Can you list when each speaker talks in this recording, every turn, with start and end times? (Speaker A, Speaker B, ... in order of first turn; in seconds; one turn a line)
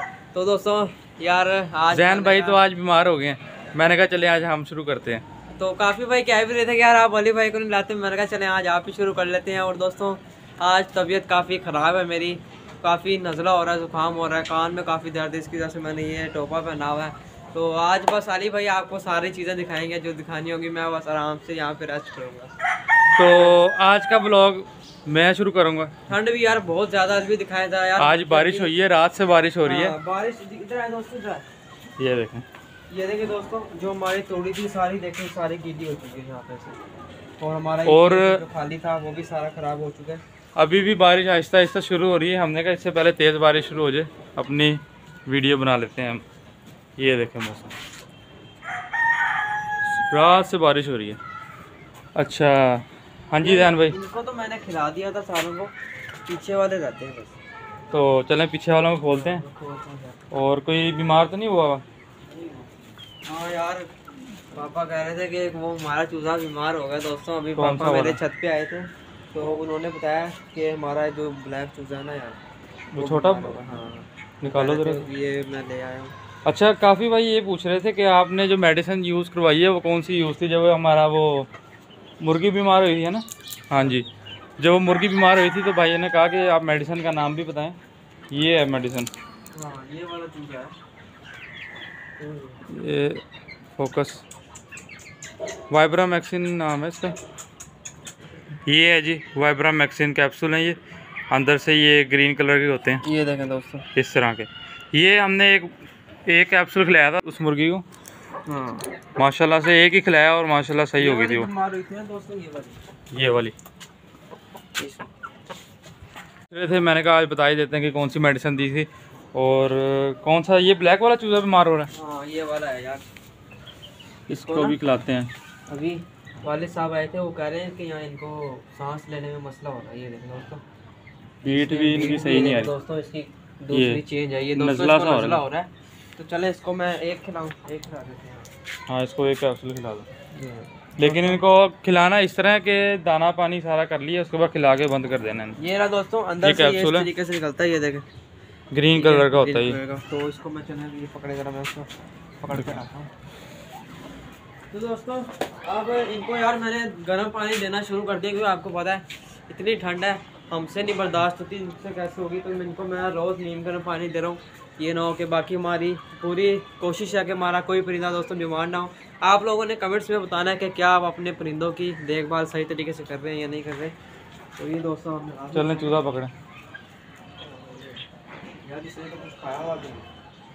Speaker A: 0.3-2.6
Speaker B: 1.9-5.2
Speaker A: 5.6-22.6
Speaker B: 23.2-26.1
Speaker A: 23.2-23.6
Speaker A: 26.1-28.7
Speaker B: 28.0-29.9
Speaker A: 29.6-31.4
Speaker B: 32.0-32.5
Speaker A: 32.9-36.8
Speaker A: 37.4-40.2
Speaker B: 37.9-38.4
Speaker B: 40.6-46.2
Speaker B: 47.0-47.8
Speaker B: 50.1-51.2
Speaker B: 52.1-54.0
Speaker A: 53.4-55.7
Speaker A: 56.3-57.4
Speaker B: 57.9-59.4
Speaker A: 59.1-60.2
Speaker B: 60.3-61.8
Speaker A: 62.3-63.9
Speaker A: 64.5-72.4
Speaker B: 67.6-68.2
Speaker B: 72.9-73.6
Speaker A: 73.0-76.1
Speaker B: 74.4-75.1
Speaker B: 76.5-81.5
Speaker B: 82.2-84.1
Speaker A: 83.8-84.1
Speaker B: 84.6-87.8
Speaker B: 88.3-89.1
Speaker A: 89.5-90.8
Speaker A: 92.2-92.6
Speaker B: 92.7-93.2
Speaker B: 93.8-94.2
Speaker B: 95.7-97.2
Speaker B: 98.7-100.8
Speaker B: 101.3-103.0
Speaker A: 103.0-103.9
Speaker B: 104.0-105.7
Speaker B: 106.3-107.8
Speaker A: 108.5-108.9
Speaker B: 109.2-111.5
Speaker A: 111.0-112.8
Speaker B: 113.1-113.5
Speaker A: 114.8-115.1
Speaker B: 116.5-121.9
Speaker A: 121.9-123.0
Speaker B: 124.3-125.3
Speaker A: 124.5-124.8
Speaker A: 125.7-130.6
Speaker B: 131.4-132.7
Speaker A: 131.4-138.5
Speaker B: 133.7-134.0
Speaker B: 134.5-135.4
Speaker B: 138.9-140.1
Speaker A: 140.3-141.4
Speaker B: 141.0-145.6
Speaker A: 145.6-148.1
Speaker B: 146.4-147.1
Speaker B: 148.7-149.8
Speaker A: 148.9-151.9
Speaker A: 152.4-153.1
Speaker A: 154.7-173.9
Speaker A: 174.6-176.0
Speaker B: 175.5-176.3
Speaker A: 177.4-178.0
Speaker A: 178.6-180.1